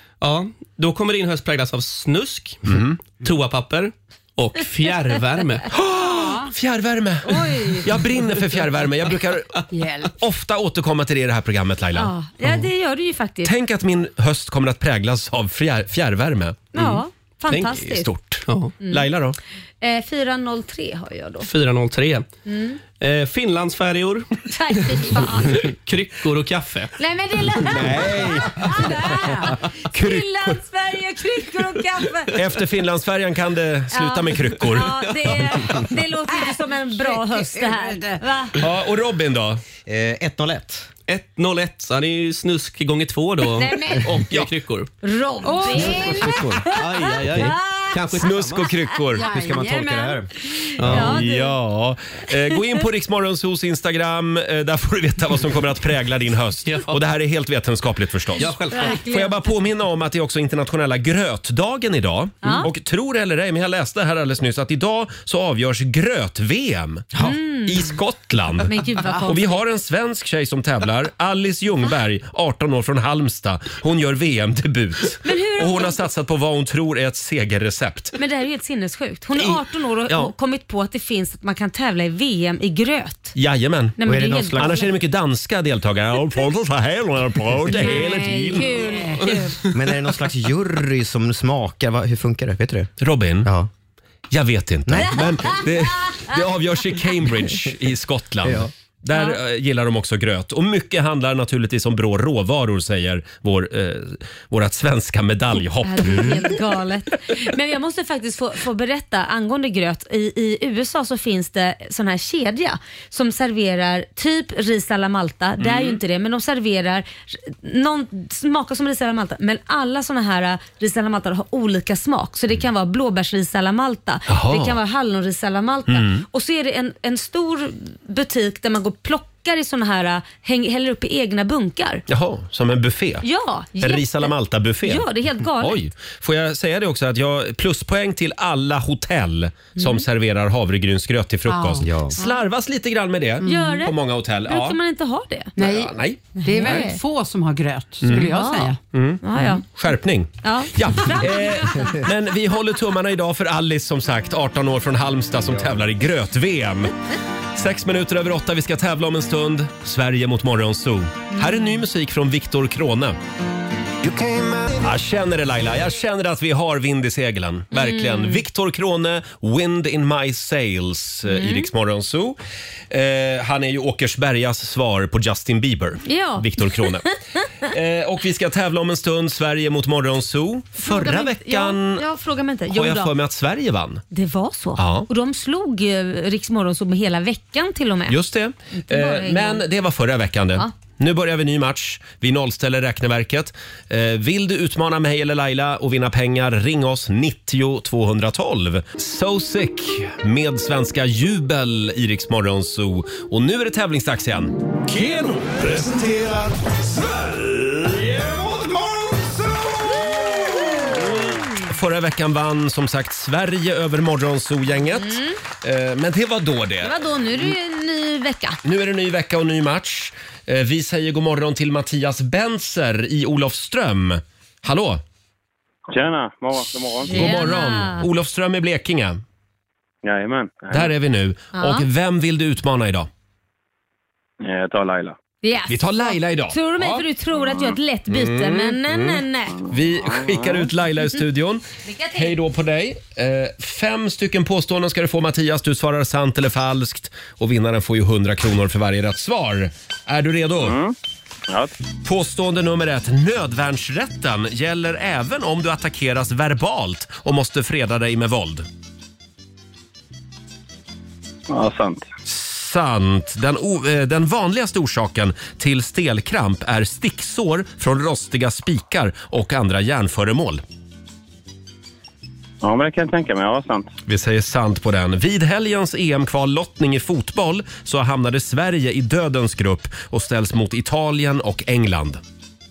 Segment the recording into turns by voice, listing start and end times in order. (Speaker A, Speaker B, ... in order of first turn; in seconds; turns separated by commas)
Speaker A: 0.2-5.8, Speaker B: 2.7-3.0, Speaker B: 5.7-9.6, Speaker C: 6.1-6.5, Speaker D: 7.2-7.9, Speaker C: 9.7-10.1, Speaker B: 10.2-12.1, Speaker D: 11.9-13.5, Speaker B: 13.4-16.7, Speaker D: 16.7-18.1, Speaker B: 17.5-19.4, Speaker A: 18.5-18.7, Speaker D: 19.8-21.5, Speaker A: 21.4-22.3, Speaker D: 22.5-22.8, Speaker A: 23.0-26.9, Speaker D: 24.5-25.7, Speaker D: 27.0-32.4, Speaker B: 27.7-28.6, Speaker C: 28.9-29.5, Speaker B: 32.3-35.1, Speaker D: 33.9-38.6, Speaker C: 37.0-38.2, Speaker B: 38.6-39.6, Speaker E: 39.9-40.9, Speaker A: 41.1-44.9, Speaker D: 43.6-44.2, Speaker D: 45.0-47.9, Speaker C: 45.4-46.5, Speaker E: 45.8-46.6, Speaker A: 46.6-48.7, Speaker E: 47.3-47.5, Speaker B: 48.1-49.2, Speaker C: 49.2-50.2, Speaker E: 49.2-50.3, Speaker D: 50.4-51.6, Speaker A: 50.8-51.2, Speaker B: 50.9-78.2, Speaker A: 56.7-57.0, Speaker A: 58.4-59.0, Speaker D: 58.4-59.4, Speaker D: 62.4-62.7, Speaker D: 67.2-67.9, Speaker D: 68.7-69.5, Speaker D: 75.2-76.0, Speaker D: 78.2-83.4, Speaker B: 79.4-80.3, Speaker B: 83.3-88.7, Speaker D: 84.0-84.9, Speaker E: 84.1-84.8, Speaker D: 87.7-89.6, Speaker C: 87.8-89.2, Speaker E: 89.7-92.9, Speaker B: 93.0-93.5, Speaker E: 93.4-93.7, Speaker B: 94.3-106.5, Speaker E: 94.9-95.6, Speaker E: 98.4-98.7, Speaker D: 99.1-99.4, Speaker D: 105.8-132.0, Speaker B: 115.6-116.0, Speaker B: 124.3-124.8, Speaker B: 125.9-126.2, Speaker B: 132.1-133.2, Speaker D: 133.2-134.3, Speaker B: 133.8-144.8, Speaker D: 134.8-135.8, Speaker D: 139.8-140.0, Speaker C: 141.5-141.9, Speaker E: 141.8-142.2, Speaker C: 143.4-143.8, Speaker D: 143.4-143.9, Speaker D: 144.5-145.6, Speaker C: 145.6-148.8, Speaker B: 145.6-146.9, Speaker D: 146.4-147.0, Speaker B: 148.0-148.3, Speaker D: 148.1-149.7, Speaker B: 148.9-156.9, Speaker D: 150.4-152.1, Speaker B: 157.6-163.2, Speaker D: 161.3-161.7, Speaker F: 164.0-164.7, Speaker B: 164.8-172.4, Speaker D: 167.7-168.4, Speaker D: 171.3-171.7, Speaker B: 172.9-177.1, Speaker D: 176.1-177.1, Speaker B: 177.7-182.0, Speaker D: 180.8-183.1, Speaker B: 182.7-184.0, Speaker D: 184.1-188.2, Speaker B: 184.8-185.1, Speaker B: 188.1-204.6, Speaker D: 188.7-189.6, Speaker F: 204.9-211.0, Speaker D: 210.2-210.9, Speaker B: 210.9-217.0, Speaker D: 215.0-215.4, Speaker D: 216.8-218.6, Speaker B: 218.6-225.0, Speaker G: 225.9-227.3, Speaker D: 227.1-228.1, Speaker B: 227.1-229.2, Speaker G: 230.0-230.9, Speaker B: 230.7-233.1, Speaker D: 231.6-231.9, Speaker G: 234.4-235.2, Speaker D: 235.4-239.6, Speaker B: 235.7-237.1, Speaker B: 238.1-250.8, Speaker G: 240.1-240.7, Speaker D: 241.8-242.4, Speaker G: 250.6-250.9, Speaker G: 251.5-251.7, Speaker B: 252.0-258.7, Speaker G: 261.5-262.1, Speaker B: 262.3-270.6, Speaker G: 272.6-273.9, Speaker B: 274.1-282.2